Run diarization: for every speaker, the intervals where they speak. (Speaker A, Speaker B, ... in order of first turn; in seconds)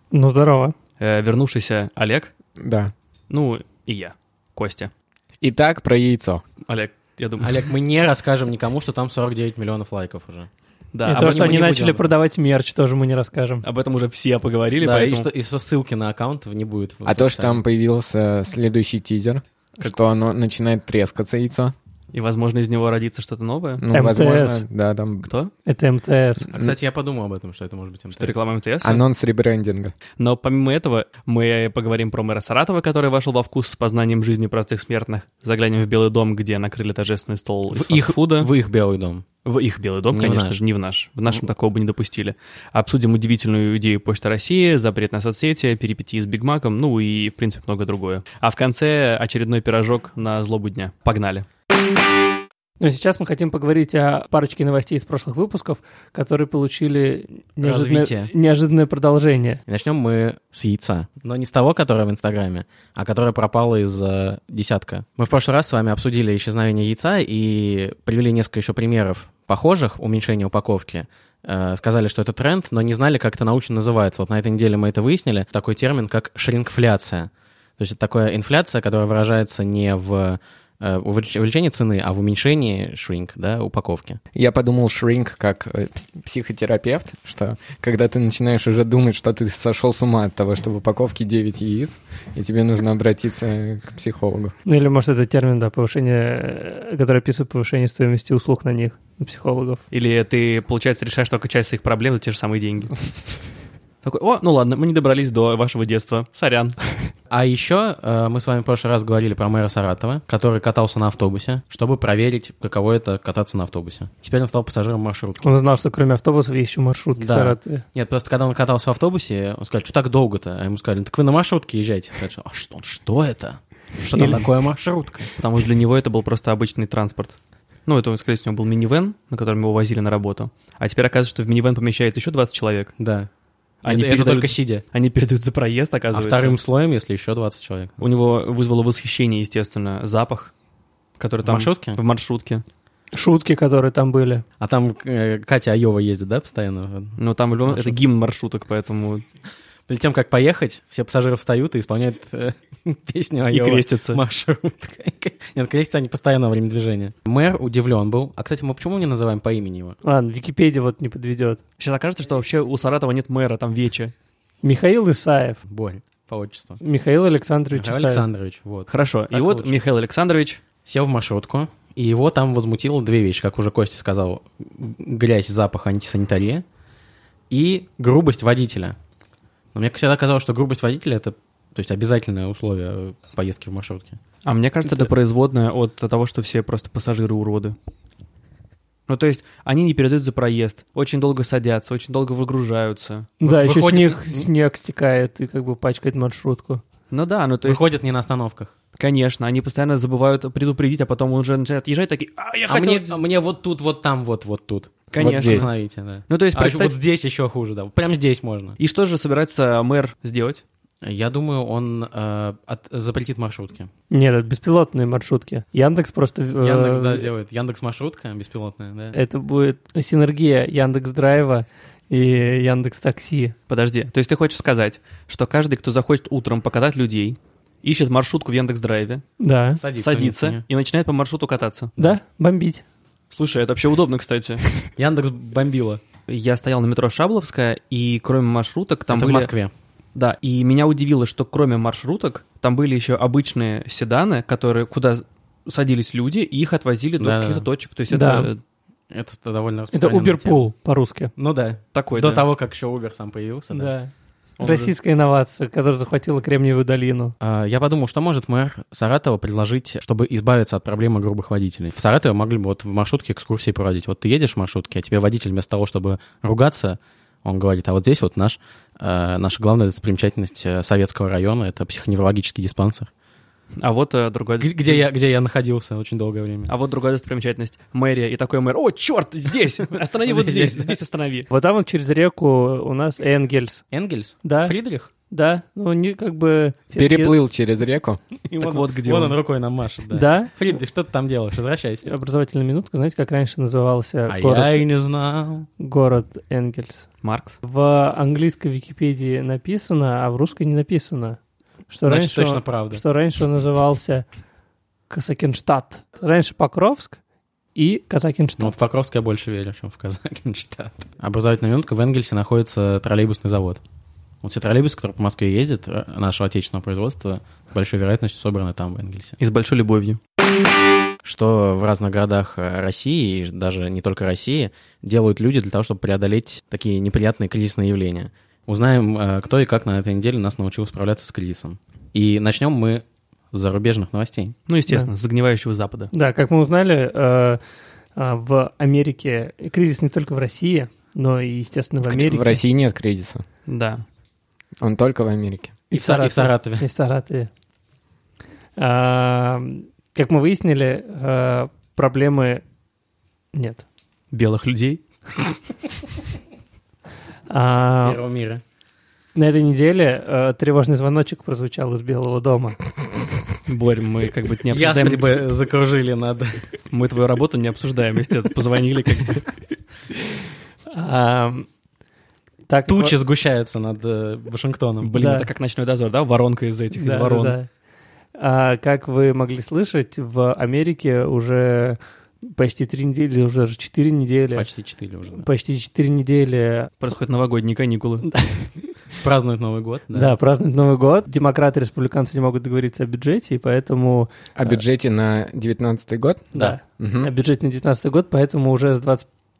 Speaker A: 0.1-0.8, 11.1-13.6, 23.9-24.6, 25.7-26.5, 52.8-59.6, 94.7-99.8, 115.4-117.8, 124.1-124.4, 143.1-144.4, 160.0-161.6, 164.6-165.6, 166.8-168.2, 193.4-196.8, 214.1-217.3, 219.1-223.6, 229.4-229.8, 232.0-232.8, 248.1-248.5, 249.9-251.3, 253.7-257.4, 281.5-283.8, 284.4-284.8, 285.3-287.4, 290.1-290.5, 292.1-294.9, 295.8-297.1, 297.6-301.4, 301.9-304.2, 305.1-307.2, 307.8-308.8, 336.1-337.6, 338.2-342.6, 345.9-347.5, 348.8-352.6, 353.5-353.8, 357.5-358.2, 359.4-362.8, 370.9-371.7, 372.7-373.2, 375.2-375.5, 376.9-377.7, 378.4-384.7, 385.4-387.1, 388.3-388.7, 390.1-394.8, 396.5-399.3
Speaker B: 1.0-2.3, 3.3-4.9, 6.7-7.7, 10.9-12.0, 13.6-15.3, 22.1-23.8, 25.2-25.5, 28.2-29.0, 30.2-38.5, 39.5-51.5, 99.9-102.9, 104.0-106.8, 125.4-132.9, 133.8-136.6, 138.0-140.5, 141.2-142.6, 147.2-149.2, 153.5-154.2, 161.8-164.1, 168.9-170.6, 184.4-187.8, 189.1-193.3, 197.1-197.9, 199.0-203.2, 205.1-205.7, 206.3-207.0, 208.8-210.6, 223.7-229.2, 229.9-231.9, 233.3-234.6, 236.3-239.5, 240.2-248.6, 251.9-252.4, 254.6-254.9, 273.8-275.0, 276.7-281.5, 288.6-289.4, 297.2-297.6, 319.4-320.2, 334.7-336.1, 343.7-344.0, 354.3-355.0, 363.7-365.4, 366.9-369.4, 375.0-377.6, 387.0-388.3
Speaker C: 2.6-2.9, 5.4-6.4, 17.1-21.7, 23.8-25.3, 28.8-29.9, 84.3-94.5, 205.2-205.7, 287.0-288.2, 342.0-343.4, 344.8-345.7, 394.6-397.3
Speaker D: 7.4-10.5, 11.1-12.1, 14.8-17.6, 26.5-28.4, 37.7-39.2, 40.1-40.6, 57.6-58.3, 59.7-84.2, 107.3-115.5, 117.2-125.3, 133.0-133.3, 133.8-134.8, 136.1-138.0, 141.4-142.0, 144.6-148.0, 149.9-160.0, 165.7-166.8, 167.7-169.8, 170.9-176.6, 177.5-179.0, 179.7-184.2, 193.4-194.5, 197.7-198.7, 202.7-208.8, 211.0-213.9, 216.6-219.2, 229.8-230.6, 235.0-236.0, 239.1-239.7, 247.2-247.7, 249.1-250.6, 251.4-253.9, 257.4-273.1, 274.6-276.7, 280.2-281.0, 283.9-285.1, 288.5-292.1, 294.3-295.7, 302.1-303.0, 308.6-313.8, 314.4-319.4, 321.2-334.6, 345.9-346.9, 358.0-358.6, 364.7-366.6, 372.9-375.2, 384.5-385.5, 389.2-390.4